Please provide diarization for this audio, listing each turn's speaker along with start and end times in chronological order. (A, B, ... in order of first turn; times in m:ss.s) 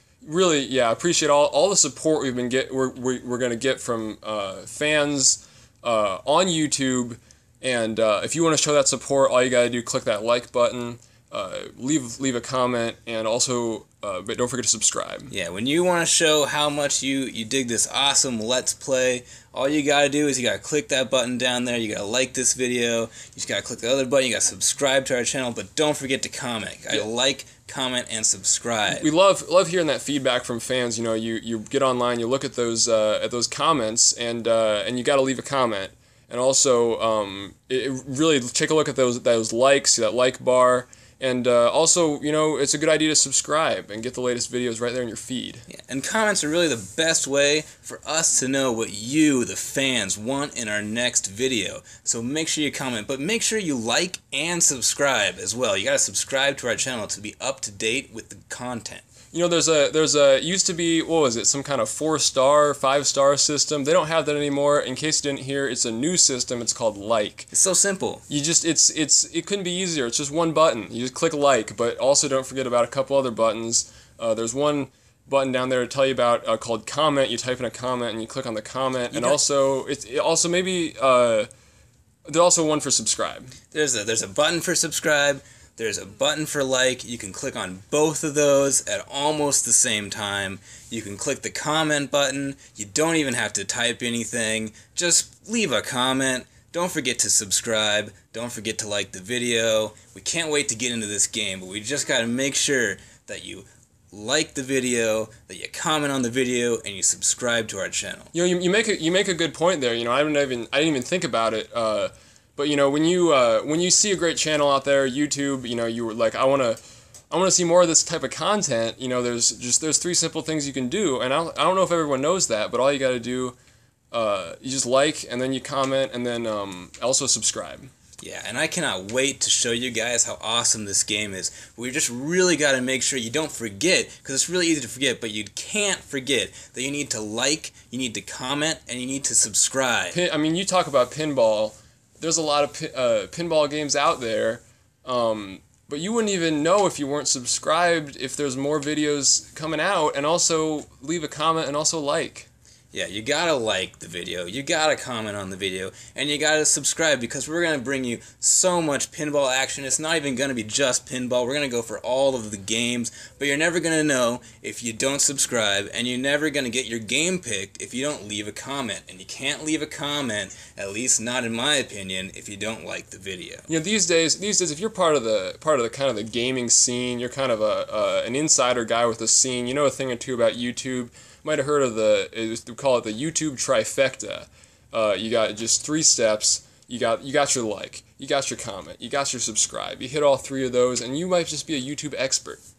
0:00.2-0:15.3 A
0:15.3-0:29.1 B
0:28.9-0:45.7 A
0:45.7-0:59.0 B
0:59.3-1:07.5 A
1:07.5-1:08.2 B
1:08.3-1:21.5 A
1:19.1-1:19.4 B
1:22.3-1:23.5 A
1:23.7-1:48.3 B
1:48.3-2:03.6 A
2:04.1-2:07.9 A
2:08.2-2:20.2 B
2:20.1-2:32.5 A
2:32.9-2:53.7 B
2:53.7-3:12.6 A